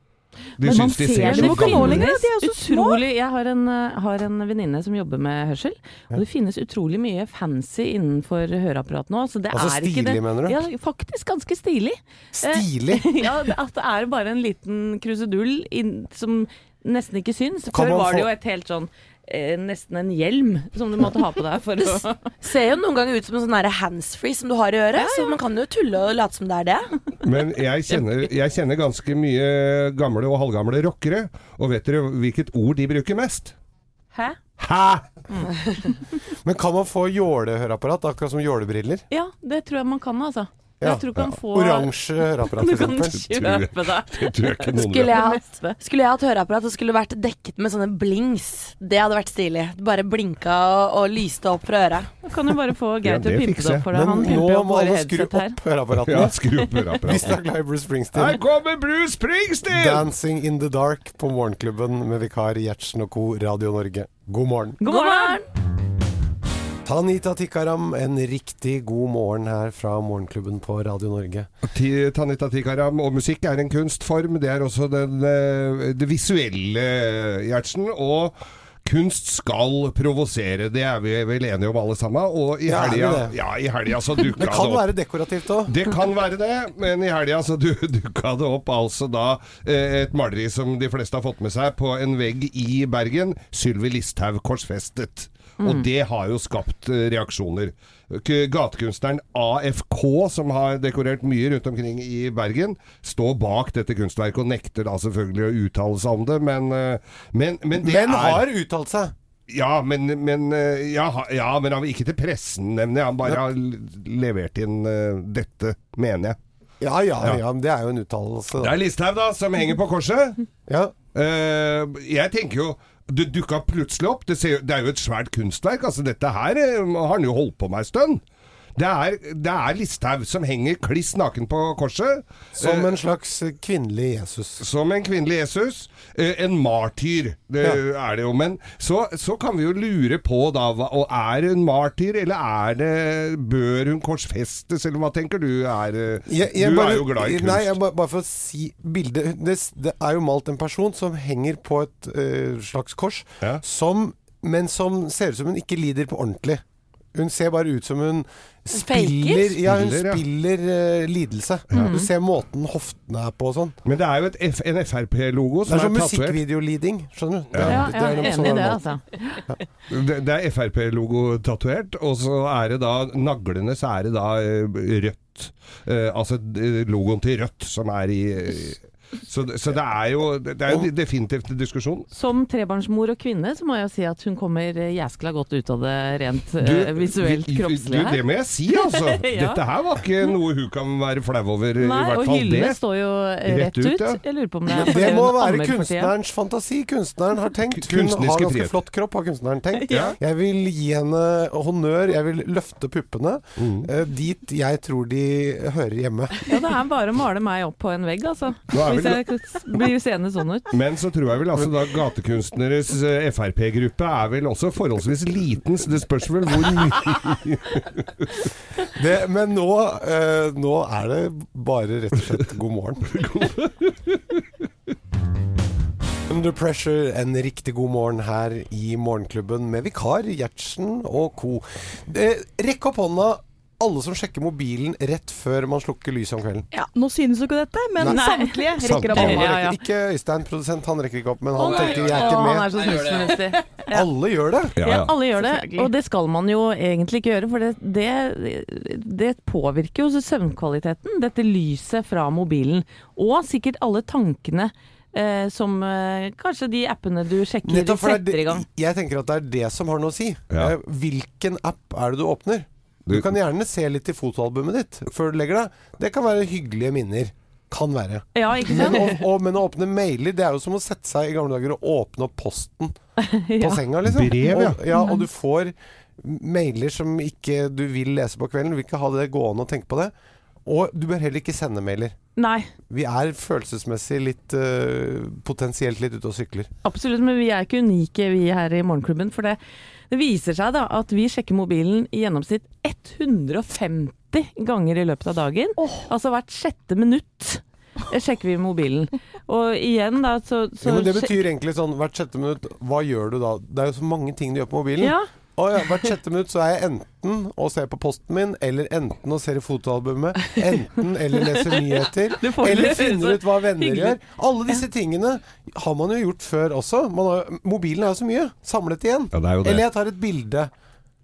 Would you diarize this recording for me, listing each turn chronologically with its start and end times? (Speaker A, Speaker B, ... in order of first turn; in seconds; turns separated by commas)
Speaker A: 0.6-2.2, Speaker B: 0.6-22.2, Speaker C: 0.6-3.0, Speaker D: 9.5-10.6, Speaker D: 12.3-13.2, Speaker D: 17.7-18.3, Speaker E: 21.8-26.9, Speaker B: 24.9-25.3, Speaker A: 27.2-33.5, Speaker A: 34.6-35.1, Speaker D: 36.4-39.0, Speaker B: 39.1-45.8, Speaker D: 40.8-43.3, Speaker A: 43.2-45.2, Speaker E: 44.7-52.1, Speaker B: 52.2-55.6, Speaker A: 53.0-53.9, Speaker D: 53.9-58.4, Speaker A: 56.0-57.4, Speaker A: 58.1-60.1, Speaker D: 59.7-64.8, Speaker B: 64.8-65.4, Speaker E: 64.8-65.5, Speaker D: 66.8-71.5, Speaker A: 71.6-84.9, Speaker D: 82.7-83.3, Speaker D: 84.3-85.7, Speaker A: 85.6-108.5, Speaker B: 95.6-95.9, Speaker D: 107.8-109.1, Speaker A: 109.5-116.4, Speaker D: 116.8-118.8, Speaker A: 118.6-120.4, Speaker D: 120.7-121.0, Speaker A: 121.1-128.2, Speaker A: 128.8-132.9, Speaker D: 132.5-134.6, Speaker A: 134.6-147.7, Speaker D: 146.3-156.6, Speaker D: 157.1-163.8, Speaker E: 158.7-159.5, Speaker A: 159.6-160.2, Speaker B: 161.7-162.1, Speaker A: 163.8-166.4, Speaker D: 165.7-168.8, Speaker A: 167.5-167.9, Speaker B: 167.6-169.4, Speaker A: 169.9-182.1, Speaker B: 182.1-189.6, Speaker A: 186.6-192.8, Speaker B: 191.8-196.1, Speaker A: 193.4-194.2, Speaker D: 194.7-206.4, Speaker A: 197.7-198.8, Speaker B: 199.7-200.1, Speaker A: 199.9-200.2, Speaker A: 203.6-203.9, Speaker B: 206.5-210.7, Speaker A: 208.7-209.2, Speaker A: 210.7-218.5, Speaker D: 218.9-223.1, Speaker A: 223.1-224.4, Speaker D: 226.3-236.7, Speaker C: 236.8-239.5, Speaker B: 238.1-239.8, Speaker A: 238.8-239.4, Speaker D: 239.0-242.9, Speaker B: 241.6-244.1, Speaker D: 243.9-244.8, Speaker A: 244.8-245.2, Speaker B: 244.8-258.6, Speaker C: 245.4-245.9, Speaker D: 257.6-272.9, Speaker B: 268.3-269.2, Speaker B: 273.2-273.8, Speaker D: 273.6-280.1, Speaker A: 274.0-274.8, Speaker D: 280.6-282.1, Speaker B: 282.4-282.7, Speaker D: 282.9-286.7, Speaker B: 286.8-289.6, Speaker B: 290.1-301.4, Speaker D: 300.8-320.7, Speaker B: 305.0-305.3, Speaker B: 312.0-314.2, Speaker A: 319.3-319.8